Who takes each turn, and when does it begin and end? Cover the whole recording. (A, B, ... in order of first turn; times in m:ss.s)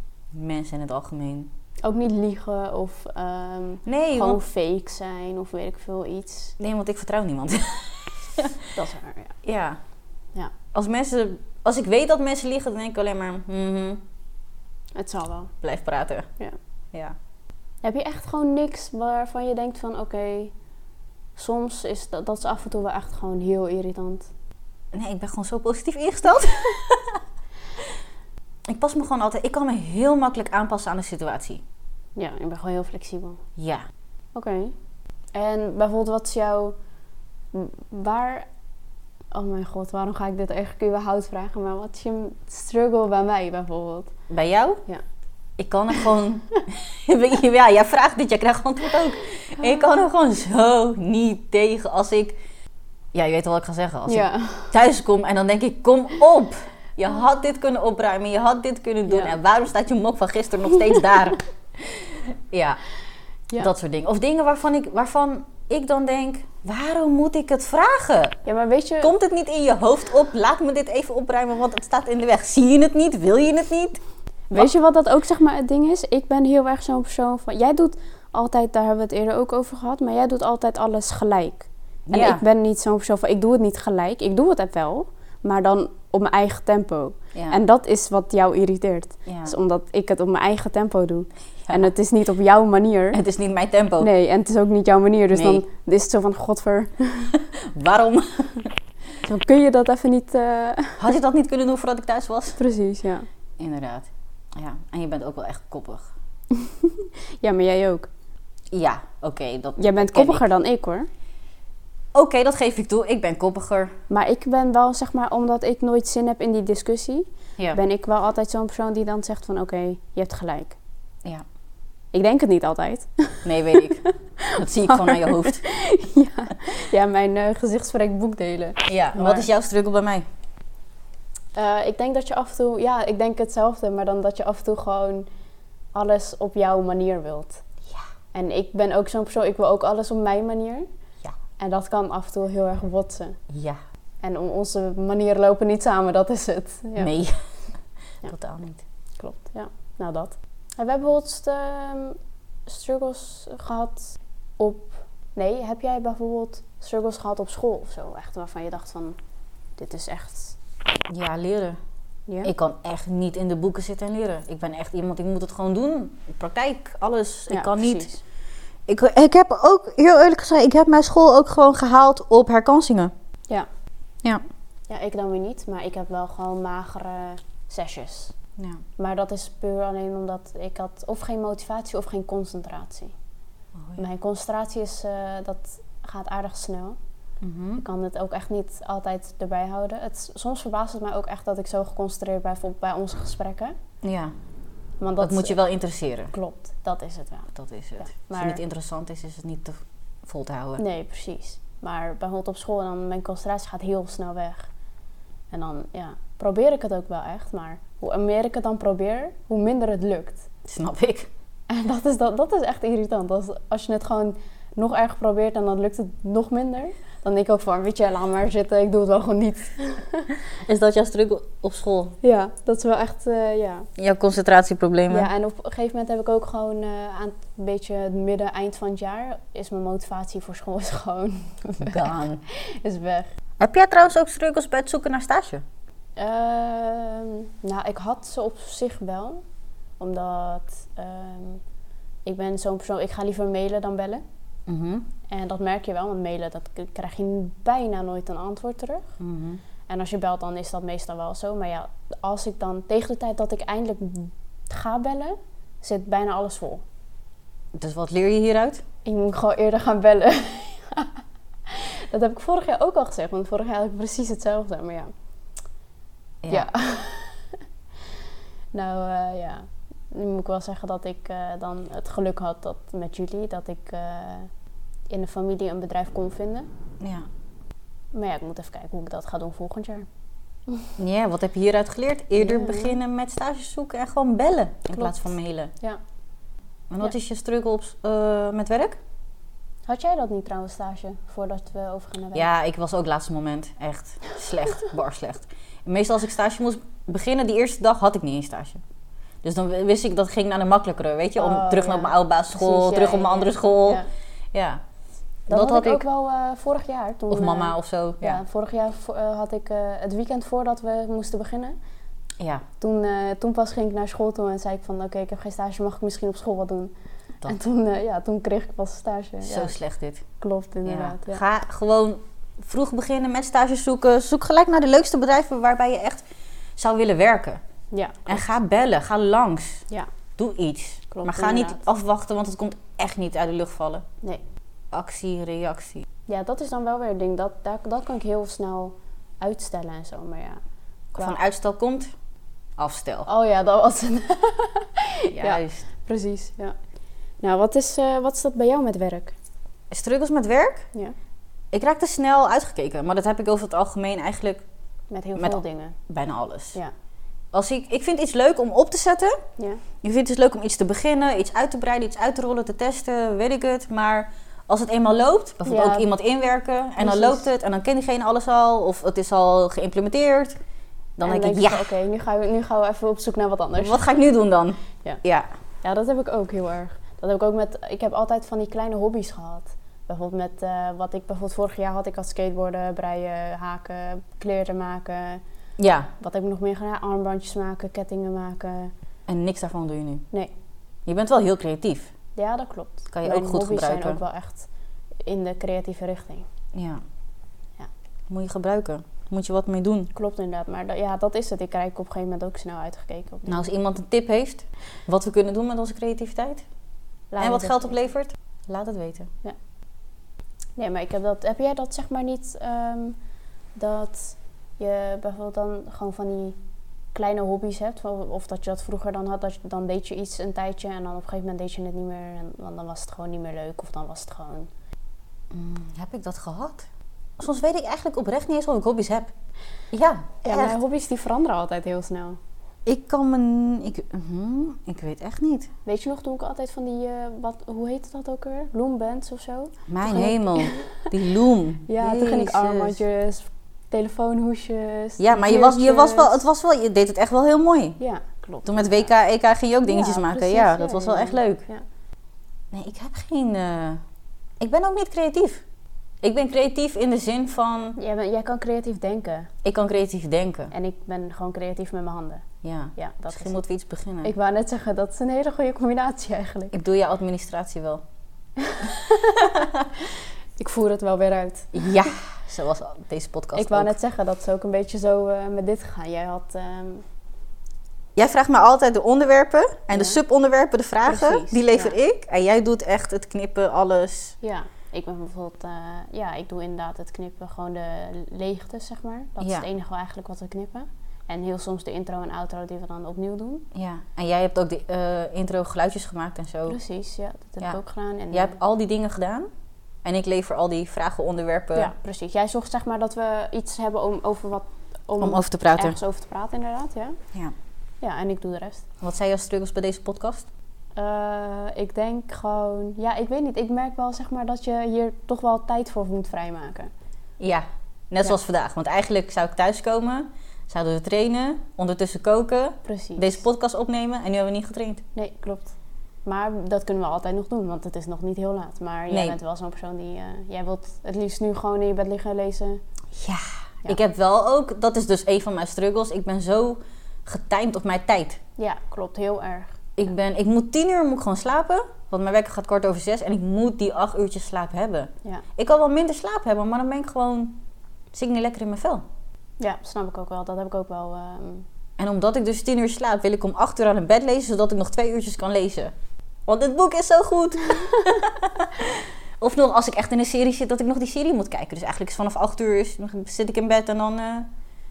0:00.3-0:01.5 A
0:01.8-0:06.6 B
0:03.9-0:04.4 A
0:06.6-0:08.7 A
0:08.8-0:09.4 B
0:09.4-0:09.8 A
0:10.7-0:14.0 A
0:15.0-0:15.5 B
0:15.6-0:16.3 A
0:17.8-0:20.5 B
0:21.4-0:24.3 B
0:24.9-0:27.2 A
0:28.7-0:31.6 A
0:32.2-0:33.4 B
0:33.6-0:33.8 A
0:34.4-0:34.8 B
0:35.3-0:36.8 B
0:37.5-0:38.5 B
0:39.3-0:44.1 B
0:44.3-0:44.8 A
0:45.6-0:52.4 A
0:53.1-1:02.8 A
0:54.1-0:54.7 B
0:59.1-0:59.4 B
1:03.6-1:08.4 A
1:08.4-1:09.1 B
1:09.0-1:14.0 A
1:14.5-1:33.2 B
1:22.1-1:22.4 A
1:27.3-1:27.6 A
1:29.3-1:29.5 A
1:31.6-1:31.9 A
1:33.1-1:34.1 A
1:34.0-1:37.4 B
1:35.3-1:35.6 A
1:37.3-1:38.7 A
1:39.2-1:41.1 B
1:41.0-1:42.6 A
1:42.6-1:43.3 B
1:43.6-1:46.1 A
1:46.5-1:48.1 B
1:48.7-1:50.4 A
1:49.8-1:51.1 B
1:52.1-1:53.9 A
1:54.1-2:00.8 B
2:02.1-2:09.5 B
2:03.4-2:04.0 A
2:04.6-2:05.6 A
2:08.9-2:10.3 A
2:11.6-2:15.3 B
2:15.9-2:17.6 B
2:18.3-2:20.9 B
2:21.6-2:23.4 B
2:23.5-2:23.8 A
2:24.2-2:27.1 B
2:27.0-2:27.4 A
2:28.2-2:28.8 A
2:29.2-2:39.2 B
2:39.8-2:40.6 B
2:41.1-2:41.8 A
2:42.4-2:48.1 A
2:47.5-2:48.2 B
2:48.9-2:53.1 A
2:54.9-2:58.4 B
2:58.6-2:58.8 A
2:59.0-3:03.1 B
3:03.8-3:04.0 A
3:04.0-3:07.0 B
3:07.4-3:07.8 A
3:07.8-3:13.8 B
3:14.0-3:14.3 A
3:15.0-3:15.6 B
3:15.2-3:16.3 A
3:16.3-3:18.6 B
3:17.5-3:20.8 A
3:20.8-3:24.7 B
3:25.5-3:30.5 B
3:30.7-3:31.3 A
3:31.7-3:40.4 B
3:40.5-3:42.2 A
3:42.2-3:43.9 B
3:44.0-3:45.3 A
3:45.1-3:53.3 B
3:51.8-3:52.4 A
3:53.6-3:55.6 A
3:56.2-3:59.4 B
4:00.0-4:01.6 B
4:02.2-4:04.2 B
4:04.7-4:05.1 A
4:05.3-4:09.1 B
4:09.2-4:09.6 A
4:09.9-4:16.8 B
4:17.8-4:18.8 A
4:19.0-4:21.1 B
4:21.7-4:25.1 B
4:26.4-4:26.7 A
4:26.5-4:27.5 B
4:28.7-4:34.5 B
4:35.1-4:36.7 B
4:37.0-4:37.3 A
4:38.1-4:40.1 B
4:41.0-4:45.7 A
4:42.4-4:43.0 B
4:44.9-4:46.0 B
4:46.9-4:49.0 A
4:49.9-4:52.5 B
4:52.4-4:58.8 A
4:59.4-5:04.8 A
5:01.4-5:04.1 B
5:05.5-5:11.8 B
5:05.5-5:06.0 A
5:07.3-5:08.4 A
5:12.4-5:12.6 A
5:12.8-5:16.9 B
5:17.4-5:19.8 B
5:19.4-5:20.2 A
5:20.4-5:21.4 B
5:20.8-5:26.2 A
5:26.8-5:27.6 A
5:27.9-5:28.4 B
5:28.3-5:29.8 A
5:30.4-5:34.0 A
5:31.1-5:31.8 B
5:34.9-5:36.0 A
5:36.3-5:40.6 B
5:41.1-5:42.1 A
5:42.8-5:43.3 A
5:43.3-5:46.7 B
5:45.3-5:45.8 A
5:47.4-5:49.3 B
5:49.9-5:50.9 A
5:51.7-5:54.6 A
5:55.1-5:56.0 B
5:55.4-5:56.8 A
5:57.5-5:59.4 A
6:00.0-6:10.6 A
6:05.7-6:06.1 B
6:07.0-6:07.5 B
6:11.2-6:11.9 A
6:11.2-6:14.0 B
6:13.8-6:15.5 A
6:15.8-6:25.4 B
6:25.8-6:26.1 A
6:26.2-6:28.9 B
6:29.3-6:30.3 A
6:31.1-6:32.1 A
6:32.4-6:34.7 B
6:33.1-6:34.2 A
6:35.2-6:36.5 B
6:36.7-6:37.0 A
6:38.3-6:40.1 A
6:40.1-6:43.6 B
6:43.5-6:46.6 A
6:47.3-6:48.0 B
6:47.4-6:49.3 A
6:50.8-6:53.2 B
6:53.8-6:56.6 B
6:57.2-7:04.7 B
7:05.5-7:09.3 A
7:09.9-7:10.8 A
7:10.4-7:12.4 B
7:12.9-7:15.7 A
7:15.9-7:21.1 B
7:19.9-7:23.0 A
7:21.9-7:26.4 B
7:25.2-7:28.0 A
7:28.0-7:29.1 B
7:28.6-7:31.6 A
7:29.9-7:31.8 B
7:32.7-7:34.0 A
7:34.6-7:35.6 A
7:36.2-7:38.0 A
7:38.0-7:39.5 B
7:39.6-7:40.7 A
7:40.7-7:42.4 B
7:42.6-7:44.3 A
7:43.0-7:43.6 B
7:44.2-7:46.8 B
7:46.7-7:48.0 A
7:48.6-7:50.0 B
7:49.4-7:49.9 A
7:50.6-7:52.1 B
7:51.7-7:54.0 A
7:53.6-7:57.0 B
7:58.2-8:04.4 A
7:59.9-8:00.2 B
8:01.0-8:02.0 B
8:04.4-8:13.7 B
8:09.4-8:09.7 A
8:13.7-8:16.8 A
8:16.7-8:18.6 B
8:18.3-8:19.5 A
8:20.0-8:21.9 A
8:21.8-8:27.2 B
8:25.2-8:26.0 A
8:28.0-8:28.9 B
8:29.0-8:30.5 A
8:31.0-8:36.9 B
8:37.4-8:45.0 A
8:42.8-8:43.4 B
8:45.2-8:45.8 B
8:46.3-8:52.8 B
8:49.1-8:49.4 A
8:53.1-8:58.4 A
8:58.6-8:59.8 B
9:00.0-9:07.6 A
9:08.1-9:09.0 A
9:09.6-9:11.6 B
9:12.0-9:15.9 A
9:16.5-9:24.5 A